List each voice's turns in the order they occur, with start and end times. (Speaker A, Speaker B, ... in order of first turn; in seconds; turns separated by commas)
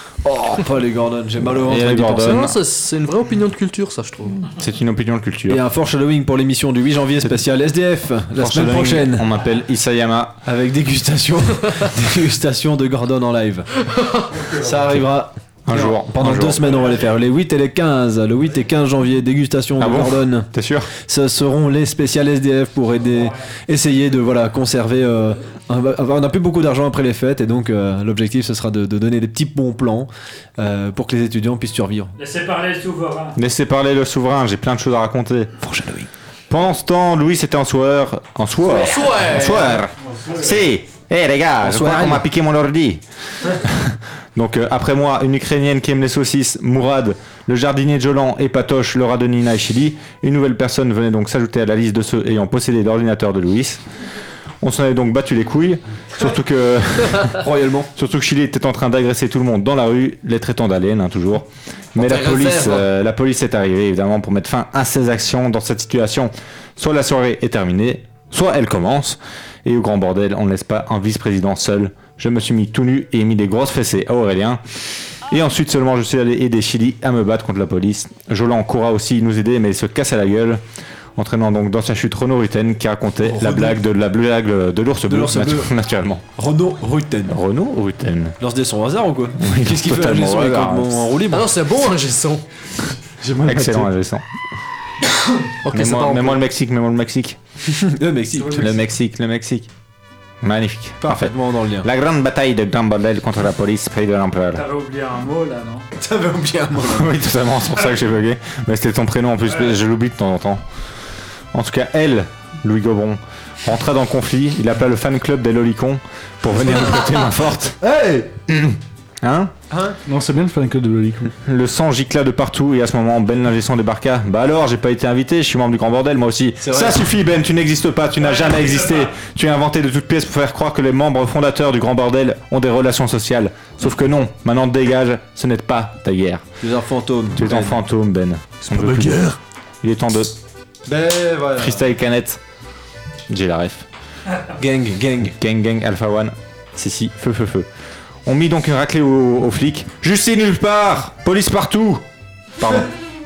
Speaker A: 0.2-2.5, Speaker B: 1.5-2.5, Speaker C: 2.2-4.5, Speaker B: 4.6-5.6, Speaker A: 5.5-9.3, Speaker B: 8.4-10.4, Speaker A: 10.4-13.7, Speaker C: 13.9-14.3, Speaker D: 14.4-14.7, Speaker A: 14.5-32.1, Speaker B: 15.7-16.9, Speaker B: 19.8-20.9, Speaker E: 32.2-33.4, Speaker B: 33.4-35.5, Speaker A: 35.6-36.1, Speaker B: 36.5-53.8, Speaker C: 38.7-39.8, Speaker E: 40.0-40.6, Speaker A: 41.6-42.2, Speaker B: 54.6-57.5, Speaker A: 57.3-57.9, Speaker B: 58.0-74.6, Speaker A: 62.0-62.9, Speaker B: 75.3-80.6, Speaker B: 81.2-86.2, Speaker A: 83.2-83.8, Speaker A: 85.1-85.7, Speaker A: 86.4-87.4, Speaker B: 87.3-88.4, Speaker A: 88.4-91.6, Speaker B: 89.4-91.1, Speaker C: 91.3-92.4, Speaker D: 93.2-93.9, Speaker B: 93.4-94.2, Speaker C: 95.6-96.4, Speaker B: 95.7-97.4, Speaker A: 97.7-98.8, Speaker B: 98.5-99.7, Speaker B: 100.4-104.6, Speaker A: 101.0-101.9, Speaker E: 104.5-105.9, Speaker A: 106.0-107.1, Speaker B: 106.8-110.6, Speaker B: 111.5-117.8, Speaker D: 117.8-118.3, Speaker B: 118.5-119.5, Speaker A: 119.7-120.0, Speaker D: 120.1-121.3, Speaker B: 121.5-136.4, Speaker A: 126.6-127.1, Speaker E: 128.3-129.1, Speaker A: 136.6-137.8, Speaker B: 137.3-139.3, Speaker D: 138.6-139.4, Speaker B: 139.8-140.3, Speaker A: 140.9-141.8, Speaker B: 141.6-142.4, Speaker B: 143.3-143.9, Speaker A: 144.6-145.3, Speaker B: 145.3-147.7, Speaker B: 148.2-152.0, Speaker B: 152.6-152.9